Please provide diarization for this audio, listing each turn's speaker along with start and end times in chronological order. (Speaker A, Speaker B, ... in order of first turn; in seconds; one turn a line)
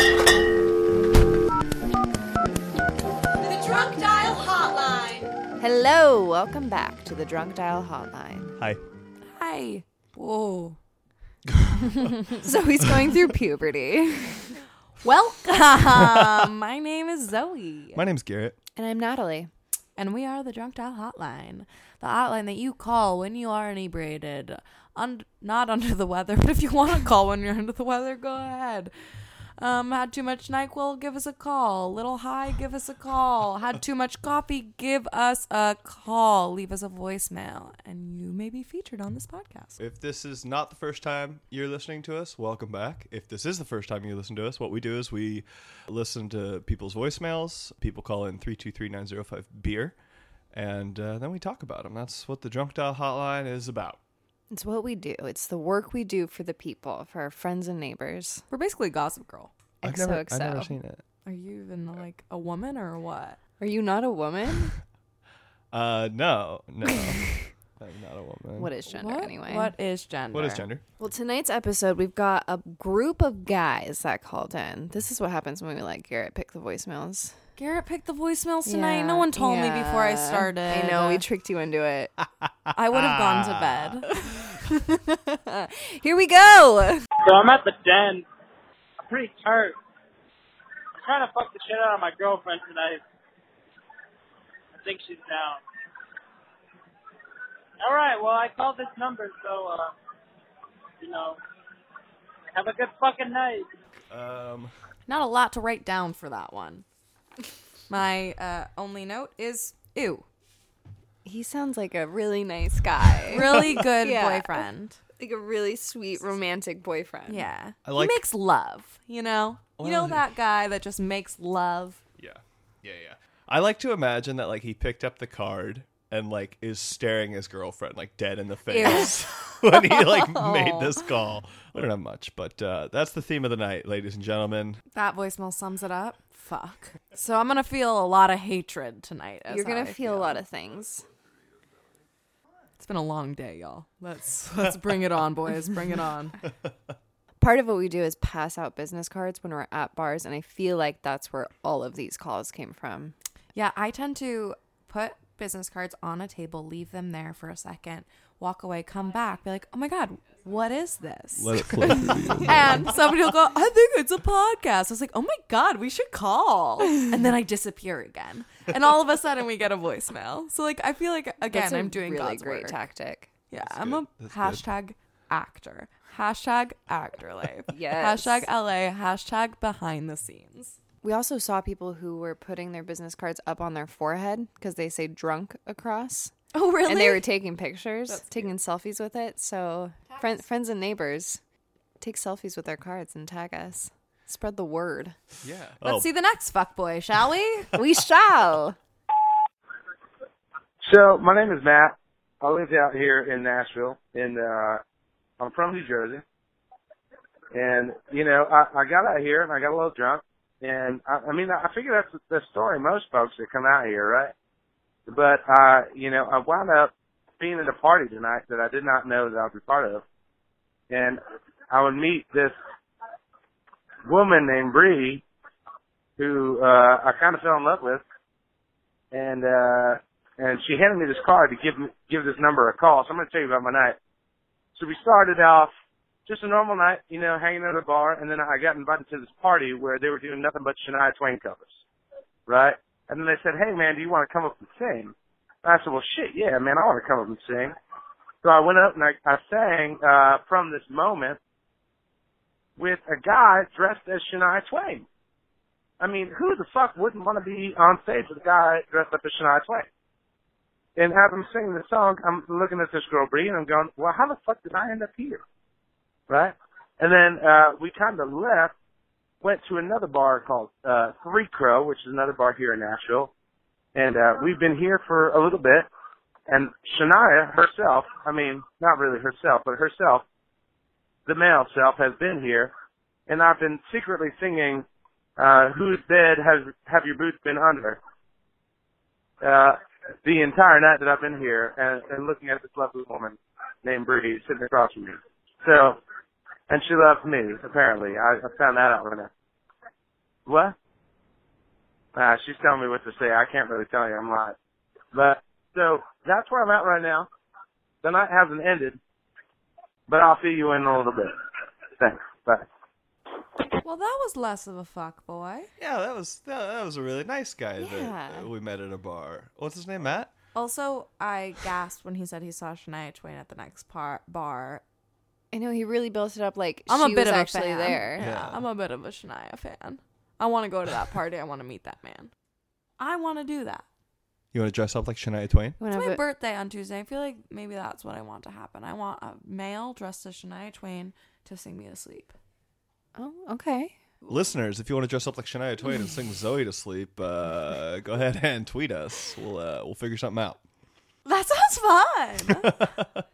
Speaker A: 3.4-5.3
Speaker B: 5.6-8.6
Speaker A: 9.3-10.8
Speaker B: 12.3-14.5
Speaker A: 15.0-18.0
Speaker C: 17.9-18.6
Speaker B: 18.8-19.5
Speaker A: 20.0-39.8
Speaker C: 39.8-50.0
Speaker C: 50.5-54.0
Speaker B: 54.5-58.4
Speaker A: 58.5-59.5
Speaker C: 59.8-61.0
Speaker B: 59.8-60.7
Speaker A: 61.2-63.4
Speaker B: 63.6-64.7
Speaker C: 65.7-68.7
Speaker B: 68.6-69.7
Speaker A: 68.9-70.6
Speaker C: 70.3-70.8
Speaker B: 71.0-77.4
Speaker A: 77.6-81.2
Speaker B: 78.6-82.1
Speaker C: 82.7-83.8
Speaker A: 82.7-84.1
Speaker B: 84.2-87.1
Speaker D: 87.2-88.3
Speaker D: 89.0-89.8
Speaker D: 91.0-93.0
Speaker D: 94.7-95.6
Speaker D: 97.8-99.9
Speaker D: 101.0-101.4
Speaker D: 102.5-103.7
Speaker C: 104.1-104.7
Speaker A: 105.1-106.8
Speaker A: 107.9-110.2
Speaker B: 111.2-117.5
Speaker A: 113.3-115.0
Speaker A: 117.3-122.0
Speaker C: 117.8-118.2
Speaker C: 119.8-120.2
Speaker C: 122.2-134.8
Speaker A: 128.8-129.1
Speaker B: 128.8-131.1
Speaker A: 134.9-140.4
Speaker B: 139.5-141.0
Speaker A: 142.8-146.4
Speaker B: 147.4-153.1
Speaker A: 153.5-172.8
Speaker C: 161.3-162.8
Speaker B: 171.5-173.3
Speaker A: 173.5-180.8
Speaker C: 173.6-174.6
Speaker B: 177.7-178.5
Speaker B: 181.0-191.4
Speaker A: 186.5-187.3
Speaker A: 188.1-188.3
Speaker B: 192.0-195.2
Speaker C: 195.4-196.1
Speaker A: 195.8-197.7
Speaker B: 197.7-198.8
Speaker E: 200.8-204.8
Speaker E: 205.4-206.2
Speaker E: 207.5-214.3
Speaker E: 215.1-220.0
Speaker E: 220.9-222.5
Speaker E: 224.1-225.2
Speaker E: 226.2-228.0
Speaker E: 229.1-234.0
Speaker E: 234.8-235.7
Speaker E: 236.2-241.7
Speaker E: 242.5-247.7
Speaker E: 248.4-251.4
Speaker E: 252.8-255.1
Speaker E: 256.0-259.9
Speaker E: 260.9-265.4
Speaker E: 266.3-268.7
Speaker E: 269.4-273.3
Speaker E: 273.9-275.9
Speaker E: 276.5-280.2
Speaker E: 281.2-282.7
Speaker E: 283.3-284.8
Speaker E: 285.4-288.0
Speaker E: 289.4-296.0
Speaker E: 296.7-299.3
Speaker E: 300.5-300.7
Speaker E: 302.1-304.5
Speaker E: 305.1-307.3
Speaker E: 308.0-309.0
Speaker E: 310.1-311.3
Speaker E: 312.0-312.7
Speaker A: 313.8-315.7
Speaker C: 315.8-320.3
Speaker B: 317.8-318.5
Speaker A: 320.5-324.8
Speaker B: 325.5-328.2
Speaker A: 326.9-332.3
Speaker C: 328.2-328.6
Speaker A: 333.0-333.8
Speaker C: 334.5-335.8
Speaker B: 335.8-336.2
Speaker A: 335.9-342.3
Speaker B: 343.1-344.0
Speaker C: 344.3-350.6
Speaker A: 351.2-352.8